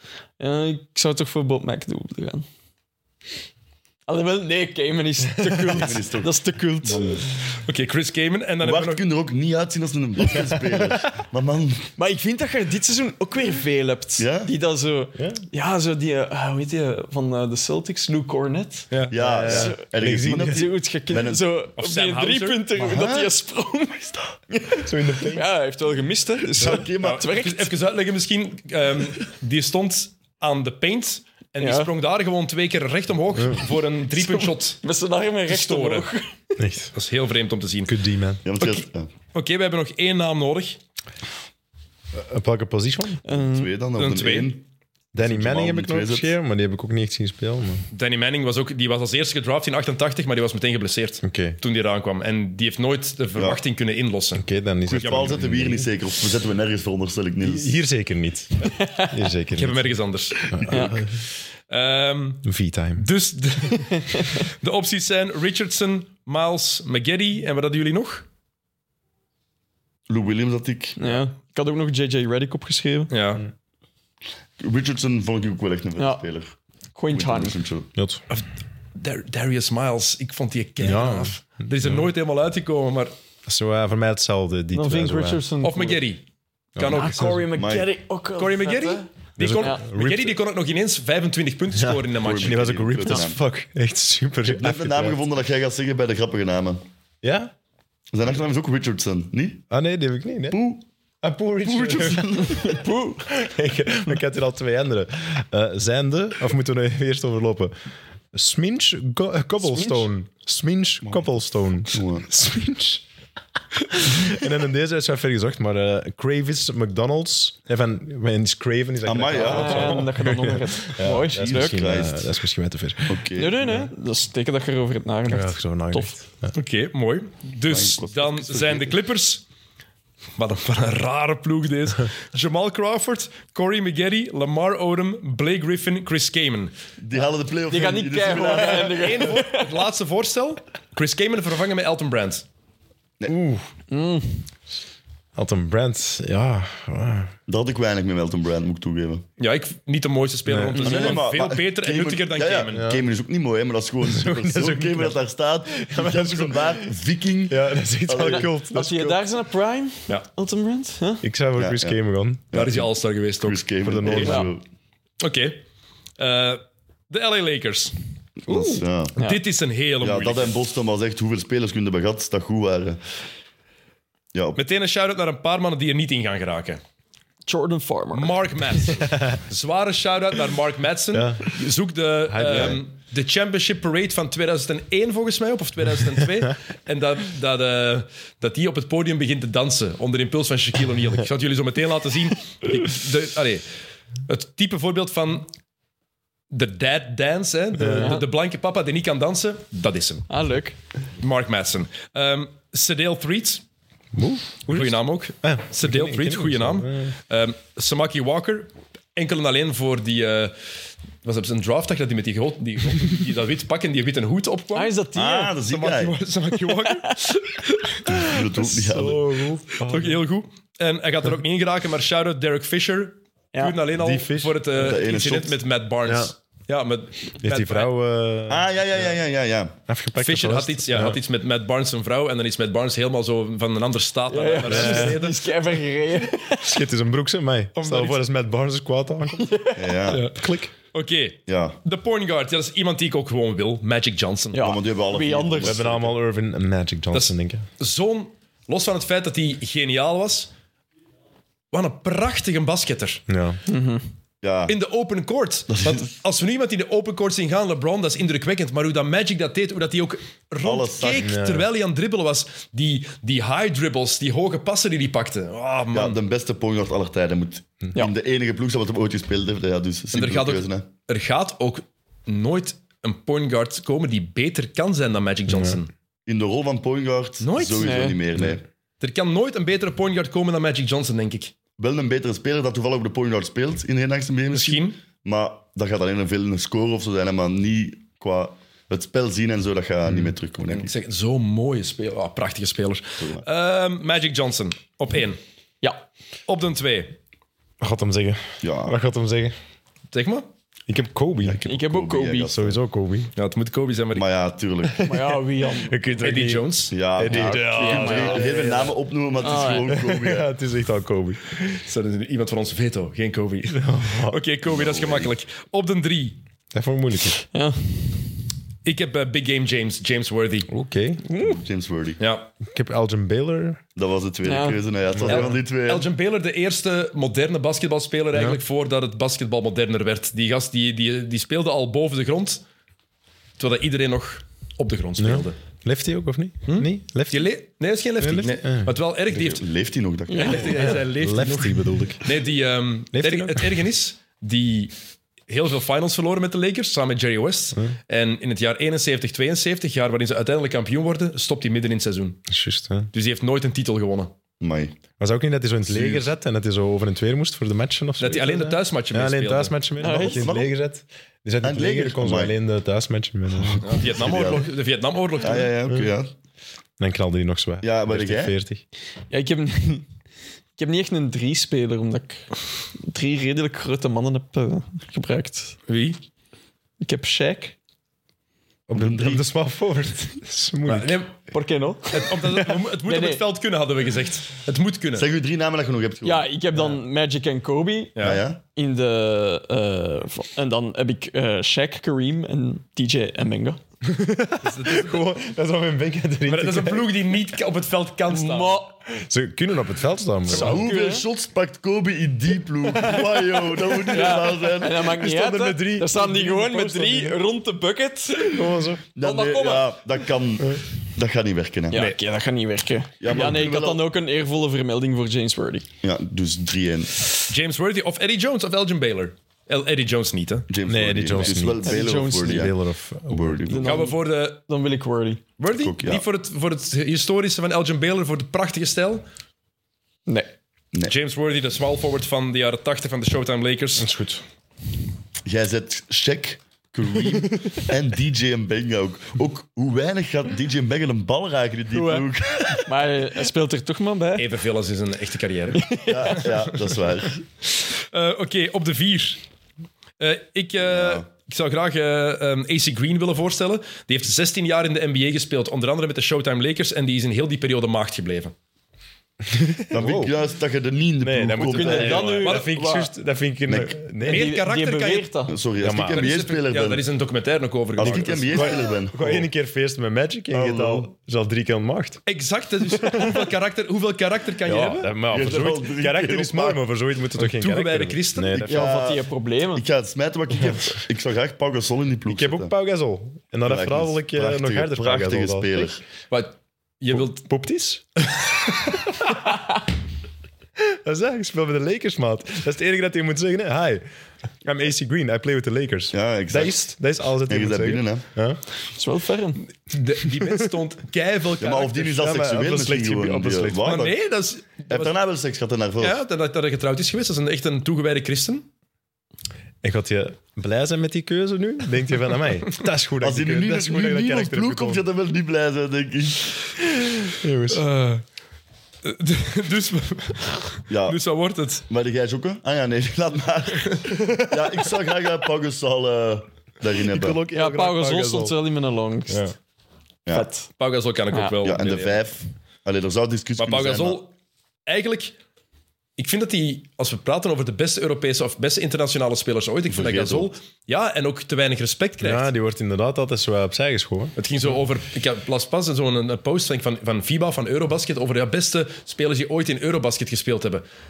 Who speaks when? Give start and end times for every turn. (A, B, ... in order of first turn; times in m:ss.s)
0:00.4-0:02.4 A
0:04.1-0:07.3 A
0:05.4-0:05.8 B
0:05.7-0:07.2 C
0:07.6-0:09.0 D
0:08.6-0:11.9 C
0:12.0-0:18.9 A
0:14.2-0:14.5 C
0:19.1-0:21.4 C
0:19.1-0:20.7 B
0:19.4-0:19.8 A
0:20.3-0:27.7 A
0:21.8-0:22.6 D
0:22.8-0:23.3 C
0:24.8-0:25.5 B
0:26.5-0:27.4 C
0:27.0-0:34.8 D
0:31.6-0:31.9 A
0:34.1-0:36.6 A
0:35.5-0:36.1 D
0:36.6-0:36.9 B
0:36.9-0:37.9 D
0:37.9-0:38.4 B
0:38.4-0:39.1 C
0:39.3-0:40.8 D
0:42.1-0:43.2 B
0:43.2-0:43.7 A
0:43.3-0:44.6 C
0:44.0-0:44.5 D
0:45.1-0:47.8 B
0:45.2-0:46.3 C
0:47.9-0:54.4 D
0:51.2-0:51.6 B
0:53.3-0:53.6 C
0:54.4-0:55.9 B
0:54.8-0:57.8 C
0:54.9-0:55.4 D
0:57.4-0:59.9 B
0:58.6-0:59.1 A
0:59.5-1:01.0 D
1:00.5-1:01.0 B
1:00.7-1:01.0 A
1:01.7-1:08.2 D
1:02.4-1:03.0 B
1:10.1-1:11.0 C
1:11.0-1:13.1 A
1:13.1-1:13.4 D
1:14.6-1:16.5 C
1:16.0-1:16.2 A
1:17.0-1:17.6 A
1:17.1-1:17.9 C
1:18.0-1:18.2 B
1:18.3-1:23.1 D
1:20.8-1:22.0 B
1:23.4-1:25.4 B
1:24.7-1:26.0 A
1:25.6-1:26.2 D
1:26.8-1:27.4 D
1:26.8-1:27.6 B
1:26.9-1:29.1 A
1:27.5-1:27.9 C
1:28.4-1:32.7 D
1:29.4-1:30.3 B
1:31.7-1:35.2 B
1:32.2-1:33.4 C
1:34.4-1:36.8 C
1:37.2-1:37.5 B
1:38.1-1:39.6 C
1:39.7-1:40.6 B
1:40.5-1:40.8 C
1:41.2-1:47.7 B
1:41.6-1:42.8 C
1:42.6-1:43.2 A
1:48.3-1:53.0 B
1:49.7-1:50.1 A
1:51.8-1:52.2 C
1:53.9-2:03.9 B
1:59.0-2:00.1 C
1:59.4-2:01.9 A
2:01.1-2:02.3 C
2:03.1-2:03.6 C
2:03.3-2:06.1 A
2:05.3-2:06.5 B
2:06.5-2:09.4 D
2:07.7-2:09.0 C
2:10.4-2:16.7 D
2:17.0-2:19.2 C
2:17.7-2:19.8 A
2:18.7-2:22.4 D
2:23.3-2:23.7 B
2:23.9-2:24.4 A
2:25.4-2:27.3 B
2:27.5-2:29.2 C
2:29.4-2:32.8 D
2:30.5-2:31.2 B
2:30.8-2:38.5 C
2:32.7-2:33.0 B
2:34.0-2:35.2 B
2:35.7-2:36.9 B
2:37.5-2:39.2 B
2:38.2-2:41.2 A
2:41.2-2:42.4 B
2:41.6-2:42.0 C
2:42.5-2:44.6 C
2:42.5-2:44.3 D
2:43.8-2:44.5 B
2:44.2-2:44.5 A
2:45.2-2:45.6 D
2:46.2-2:47.9 D
2:48.5-2:49.1 C
2:48.5-2:49.4 A
2:49.1-2:50.6 D
2:50.0-2:53.0 C
2:54.3-2:54.6 C
2:54.6-2:56.8 D
2:57.4-2:58.3 A
2:58.1-3:13.6 D
3:01.1-3:01.5 B
3:02.3-3:02.8 B
3:14.3-3:15.5 D
3:16.5-3:20.3 D
3:17.8-3:18.2 B
3:18.0-3:18.2 A
3:20.3-3:20.8 A
3:21.2-3:23.6 D
3:24.2-3:27.1 B
3:24.7-3:30.6 D
3:31.2-3:34.9 D
3:34.7-3:35.6 A
3:35.1-3:36.2 C
3:35.7-3:38.2 D
3:38.1-3:39.2 C
3:38.6-3:40.2 B
3:39.8-3:47.9 D
3:43.5-3:43.8 A
3:43.9-3:44.6 B
3:44.7-3:45.6 C
3:46.0-3:46.3 B
3:47.4-3:48.7 B
3:48.5-3:49.8 C
3:49.9-3:51.2 B
3:50.2-3:55.5 D
3:54.3-3:56.8 A
3:54.6-3:55.2 B
3:56.6-4:00.7 B
3:57.7-3:58.2 D
3:59.4-4:00.0 A
3:59.8-4:00.3 C
4:00.1-4:00.4 D
4:00.9-4:04.6 D
4:01.4-4:01.8 C
4:04.5-4:05.9 A
4:04.5-4:06.2 C
4:05.6-4:07.6 B
4:07.1-4:10.5 D
4:11.7-4:13.2 D
4:13.3-4:13.6 B
4:13.7-4:14.0 A
4:14.4-4:14.8 C
4:14.7-4:26.2 D
4:15.7-4:16.1 C
4:20.6-4:21.3 C
4:21.2-4:21.6 B
4:25.9-4:30.9 C
4:30.1-4:35.9 D
4:35.5-4:35.8 B
4:36.2-4:38.6 C
4:37.4-4:38.0 D
4:37.8-4:38.2 A
4:39.0-4:41.5 D
4:41.8-4:50.9 C
4:44.5-4:45.0 D
4:50.7-4:55.4 D
4:53.2-4:53.4 C
4:56.5-4:57.2 D
4:57.8-4:59.5 B
4:58.6-4:59.0 C
5:00.1-5:00.5 D
5:00.9-5:01.6 B
5:01.4-5:02.8 C
5:01.6-5:02.5 A
5:02.5-5:03.3 B
5:03.3-5:04.3 D
5:04.1-5:05.0 C
5:04.8-5:08.9 B
5:05.0-5:06.0 A
5:06.2-5:06.9 D
5:06.9-5:10.5 C
5:07.2-5:10.1 A
5:09.9-5:11.8 B
5:11.8-5:16.4 D
5:13.7-5:14.4 B
5:14.6-5:15.3 C
5:16.7-5:17.4 B
5:17.4-5:18.2 A
5:18.8-5:20.7 D
5:20.7-5:21.2 B
5:21.2-5:21.6 A
5:21.4-5:22.2 C
5:22.2-5:22.5 D
5:22.6-5:23.8 B
5:24.0-5:26.1 C
5:24.4-5:24.8 A
5:25.1-5:25.5 B
5:25.2-5:32.6 D
5:33.6-5:35.6 D
5:35.2-5:37.5 B
5:36.6-5:39.7 D
5:38.2-5:38.9 B
5:39.3-5:40.9 C
5:40.3-5:40.8 A
5:40.3-5:44.9 D
5:41.0-5:42.3 B
5:43.1-5:43.7 B
5:45.5-5:52.4 D
5:52.5-5:53.1 B
5:53.1-5:54.3 D
5:54.6-5:55.0 C
5:55.2-6:03.8 B
5:55.9-5:56.2 C
5:58.2-5:59.8 D
6:00.0-6:00.5 A
6:00.0-6:00.7 C
6:01.6-6:02.5 C
6:03.7-6:04.6 C
6:03.8-6:05.7 D
6:05.4-6:06.3 C
6:07.0-6:08.8 B
6:07.8-6:08.5 C
6:09.3-6:10.0 A
6:10.8-6:15.8 A
6:15.9-6:16.2 D
6:17.0-6:17.7 A
6:18.9-6:21.2 B
6:18.9-6:19.4 C
6:20.8-6:21.4 D
6:21.5-6:23.4 A
6:22.1-6:25.3 D
6:25.1-6:26.5 C
6:26.2-6:33.8 A
6:28.2-6:28.4 D
6:28.2-6:28.6 C
6:34.0-6:37.2 B
6:34.6-6:35.3 D
6:36.4-6:38.8 D
6:38.3-6:39.0 A
6:39.1-6:40.9 B
6:40.5-6:45.1 C
6:40.5-6:41.2 A
6:42.9-6:43.8 B
6:44.1-6:50.0 A
6:45.0-6:47.4 B
6:48.5-6:49.0 B
6:49.1-6:52.0 C
6:51.9-6:55.9 A
6:53.2-6:54.1 C
6:56.0-6:57.2 C
6:57.5-7:00.7 D
7:00.7-7:02.8 C
7:00.9-7:03.6 B
7:01.8-7:02.7 A
7:03.3-7:04.1 C
7:03.7-7:05.4 A
7:03.8-7:04.6 D
7:05.6-7:09.2 D
7:05.8-7:06.2 C
7:10.3-7:10.5 A
7:11.1-7:14.1 D
7:14.0-7:14.4 B
7:15.4-7:23.0 C
7:21.9-7:24.5 A
7:24.3-7:26.6 D
7:25.8-7:26.5 A
7:26.0-7:27.4 C
7:27.7-7:29.4 D
7:30.2-7:38.5 D
7:30.8-7:31.2 C
7:39.5-7:40.3 B
7:39.9-7:42.4 C
7:41.2-7:44.6 B
7:41.6-7:43.1 A
7:42.0-7:42.7 D
7:43.6-7:44.0 C
7:44.2-7:45.6 A
7:44.3-7:45.3 D
7:45.5-7:47.0 C
7:45.8-7:46.2 B
7:46.1-7:48.8 D
7:48.0-7:49.5 C
7:48.0-7:52.2 B
7:50.5-7:51.1 C
7:52.2-7:55.1 D
7:53.0-7:53.4 B
7:54.6-7:58.9 B
7:55.3-7:56.8 C
7:57.4-7:58.6 D
7:58.5-8:02.7 C
7:58.7-7:59.8 A
8:02.2-8:05.9 B
8:03.6-8:06.0 C
8:06.3-8:07.4 D
8:07.1-8:08.0 B
8:10.8-8:14.0 B
8:14.6-8:18.6 B
8:16.1-8:16.8 C
8:17.5-8:18.2 C
8:19.0-8:19.6 A
8:19.8-8:22.2 D
8:20.3-8:20.6 B
8:21.6-8:24.2 C
8:22.2-8:23.9 B
8:23.8-8:25.1 D
8:24.9-8:26.2 C
8:26.0-8:28.7 D
8:29.8-8:35.0 B
8:33.2-8:36.5 C
8:37.2-8:37.8 B
8:37.7-8:38.2 D
8:39.0-8:41.8 D
8:40.9-8:41.2 C
8:41.9-8:47.4 C
8:47.1-8:48.5 B
8:47.5-8:49.4 A
8:50.3-8:50.7 A
8:50.8-8:52.2 D
8:51.3-8:51.6 A
8:51.6-8:54.2 C
8:53.6-8:54.3 D
8:54.8-8:55.3 D
8:56.2-9:02.5 D
8:59.9-9:00.5 C
9:02.2-9:04.3 B
9:04.4-9:10.8 D